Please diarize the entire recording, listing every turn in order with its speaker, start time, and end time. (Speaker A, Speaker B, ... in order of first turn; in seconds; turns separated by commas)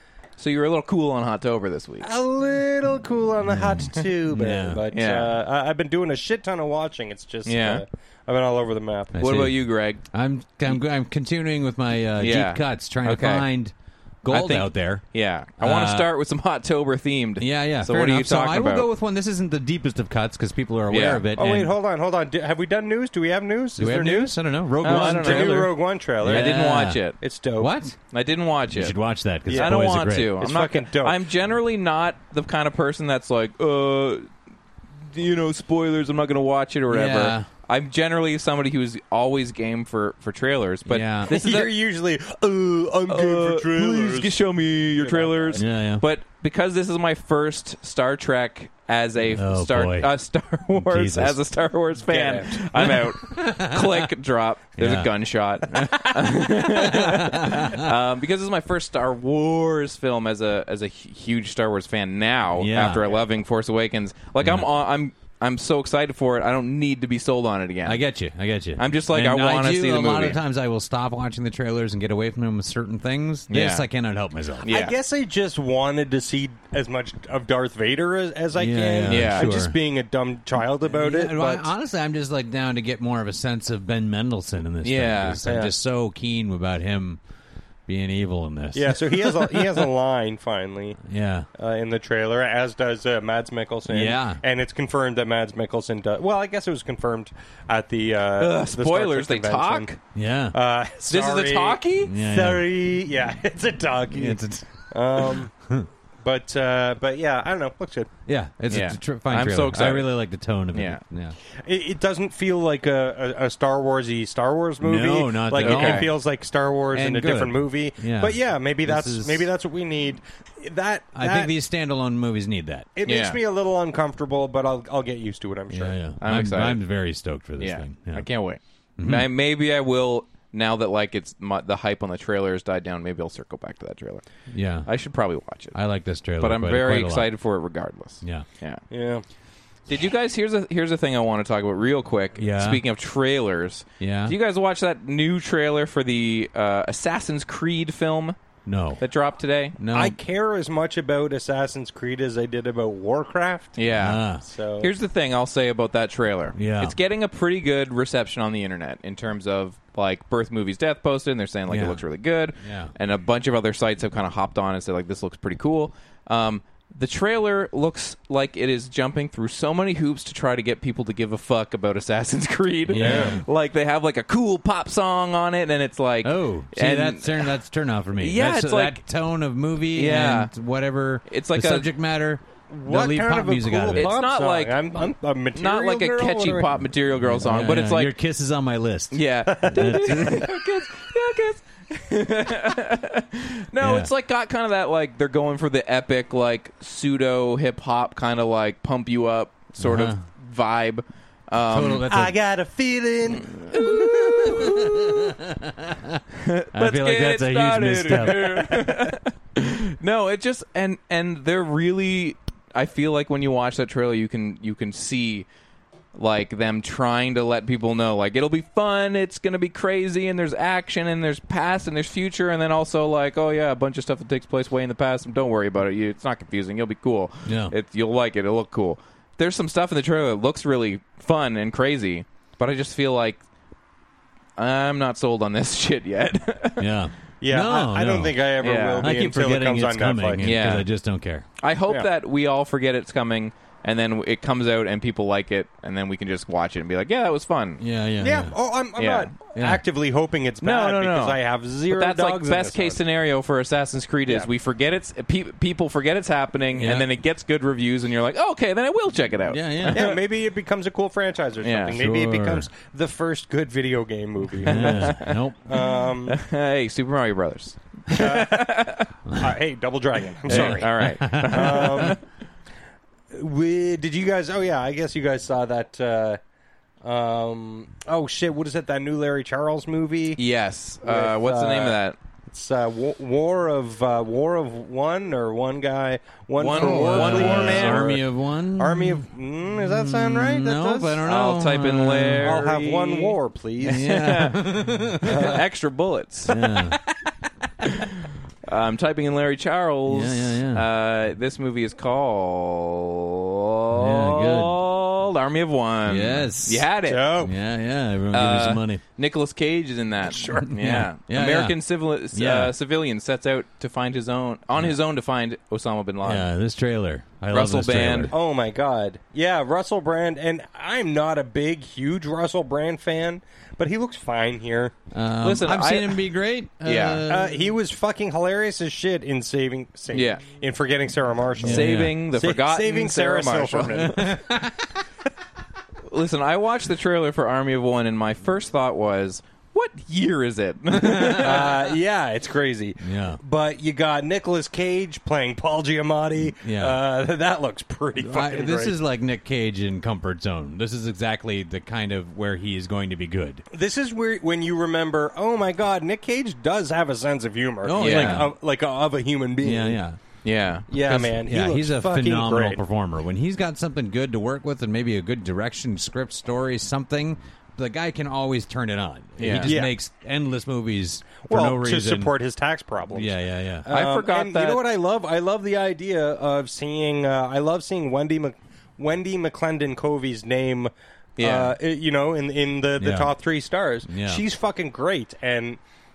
Speaker A: 0.4-2.1, Speaker B: 2.0-9.2, Speaker C: 3.4-4.8, Speaker A: 4.9-5.3, Speaker A: 7.5-7.8, Speaker C: 9.1-15.1, Speaker A: 9.2-10.1, Speaker A: 12.2-13.5, Speaker A: 14.3-18.9, Speaker C: 15.6-16.1, Speaker C: 17.4-21.7, Speaker A: 20.9-21.3, Speaker B: 21.4-27.8, Speaker C: 23.8-27.1, Speaker A: 24.8-27.2, Speaker C: 27.6-28.0, Speaker A: 28.1-29.0, Speaker C: 28.7-30.4, Speaker B: 29.5-31.2, Speaker A: 29.5-34.3, Speaker A: 35.1-41.8, Speaker C: 36.9-37.5, Speaker C: 40.9-41.4, Speaker B: 41.3-45.6, Speaker A: 43.1-68.0, Speaker C: 45.6-46.0, Speaker C: 49.3-50.1, Speaker C: 50.8-51.4, Speaker B: 52.0-52.9, Speaker C: 52.8-54.1, Speaker C: 54.8-55.1, Speaker C: 56.0-57.9, Speaker C: 62.5-63.0, Speaker C: 64.4-64.7, Speaker C: 67.8-74.7, Speaker A: 68.8-70.4, Speaker A: 73.5-73.9, Speaker A: 74.7-75.0, Speaker B: 74.7-81.7, Speaker C: 78.5-79.8, Speaker A: 79.1-79.5, Speaker C: 80.8-87.2, Speaker A: 84.8-85.4, Speaker B: 85.4-85.7, Speaker C: 87.9-89.9, Speaker B: 88.8-91.0, Speaker C: 91.1-91.5, Speaker B: 91.6-99.9, Speaker C: 93.9-94.4, Speaker A: 98.4-100.0, Speaker C: 100.2-100.6, Speaker B: 100.5-104.4, Speaker A: 101.1-102.1, Speaker C: 102.0-102.9, Speaker C: 104.1-105.9, Speaker B: 104.9-105.5, Speaker B: 106.2-108.1, Speaker C: 108.3-111.4, Speaker A: 108.7-110.1, Speaker A: 110.7-111.0, Speaker B: 111.6-121.5, Speaker C: 114.8-116.2, Speaker A: 115.5-116.1, Speaker C: 116.9-119.5, Speaker C: 121.2-122.9, Speaker B: 123.0-126.0, Speaker A: 123.0-123.4, Speaker C: 125.7-128.3, Speaker A: 126.2-126.8, Speaker A: 127.6-134.2, Speaker C: 129.0-129.3, Speaker C: 134.5-134.9, Speaker A: 134.8-135.8, Speaker C: 135.7-137.3, Speaker A: 136.4-138.8, Speaker B: 138.9-139.2, Speaker A: 139.9-148.4, Speaker C: 142.4-142.8, Speaker C: 144.0-144.4, Speaker C: 148.7-149.0, Speaker A: 149.0-149.8, Speaker C: 149.8-150.2, Speaker B: 149.9-153.8, Speaker A: 153.8-154.2, Speaker C: 153.9-154.4, Speaker B: 154.4-154.9, Speaker A: 154.8-177.5, Speaker C: 156.6-156.9, Speaker C: 161.7-162.0, Speaker C: 162.6-162.9, Speaker C: 172.9-173.4, Speaker B: 173.0-173.4, Speaker C: 176.2-184.1, Speaker A: 178.2-179.0, Speaker A: 179.9-180.5, Speaker A: 181.3-181.9, Speaker B: 182.7-186.7, Speaker A: 183.9-188.1, Speaker C: 187.2-190.5, Speaker A: 189.1-202.1, Speaker B: 189.5-190.5, Speaker C: 193.8-194.1, Speaker C: 199.8-200.2, Speaker C: 201.6-202.4, Speaker B: 202.1-205.0, Speaker A: 203.7-204.8, Speaker C: 203.8-206.2, Speaker A: 206.4-215.5, Speaker C: 206.7-209.1, Speaker A: 216.2-233.4, Speaker C: 227.5-227.7, Speaker A: 234.6-236.9, Speaker C: 236.8-238.5, Speaker B: 237.4-240.8, Speaker A: 238.6-239.2, Speaker C: 239.0-241.4, Speaker A: 240.4-240.9, Speaker A: 241.6-247.8, Speaker C: 247.8-248.6, Speaker B: 248.2-253.0, Speaker A: 249.0-249.3, Speaker C: 249.6-249.8, Speaker A: 250.6-260.2, Speaker B: 254.2-254.5, Speaker C: 256.8-257.1, Speaker C: 259.4-260.1, Speaker B: 259.9-266.4, Speaker A: 261.6-262.0, Speaker C: 261.9-262.7, Speaker A: 264.6-265.3, Speaker C: 264.6-265.6, Speaker A: 266.3-269.1, Speaker B: 268.1-272.2, Speaker C: 270.5-272.2, Speaker A: 270.5-272.2, Speaker B: 273.3-276.4, Speaker B: 277.0-280.4, Speaker A: 280.4-282.2, Speaker B: 281.0-282.0, Speaker B: 282.5-288.2, Speaker A: 286.6-288.2, Speaker C: 286.7-292.6, Speaker B: 288.8-291.3, Speaker A: 291.2-294.6, Speaker B: 292.4-294.1, Speaker C: 293.8-295.5, Speaker A: 295.2-296.8, Speaker B: 295.2-295.6, Speaker C: 296.5-297.0, Speaker A: 298.7-307.4, Speaker C: 300.1-300.9, Speaker C: 303.9-304.8, Speaker C: 306.1-306.9, Speaker B: 307.1-307.5, Speaker C: 307.4-309.0, Speaker A: 308.3-316.5, Speaker B: 310.2-310.7, Speaker C: 310.6-311.8, Speaker C: 312.3-312.7, Speaker C: 316.2-318.3, Speaker A: 317.5-318.3, Speaker B: 318.3-324.9, Speaker C: 325.1-327.8, Speaker A: 325.4-326.2, Speaker A: 326.8-327.2, Speaker B: 327.3-334.4, Speaker A: 330.1-330.5, Speaker C: 331.6-332.2, Speaker A: 331.6-334.2, Speaker C: 333.9-334.8, Speaker A: 336.1-341.9, Speaker C: 340.9-341.6, Speaker B: 341.3-348.9, Speaker C: 343.0-343.4, Speaker C: 346.4-347.0, Speaker C: 348.2-353.6, Speaker B: 353.7-360.0, Speaker C: 357.8-358.5, Speaker A: 358.0-358.5, Speaker C: 359.6-360.2, Speaker A: 360.4-361.2, Speaker B: 360.9-362.8, Speaker C: 360.9-372.3, Speaker A: 369.4-369.7, Speaker B: 369.6-369.9, Speaker B: 371.5-385.8, Speaker C: 373.1-373.9, Speaker A: 373.9-374.9, Speaker A: 381.4-381.8, Speaker C: 383.0-383.4, Speaker C: 384.1-384.4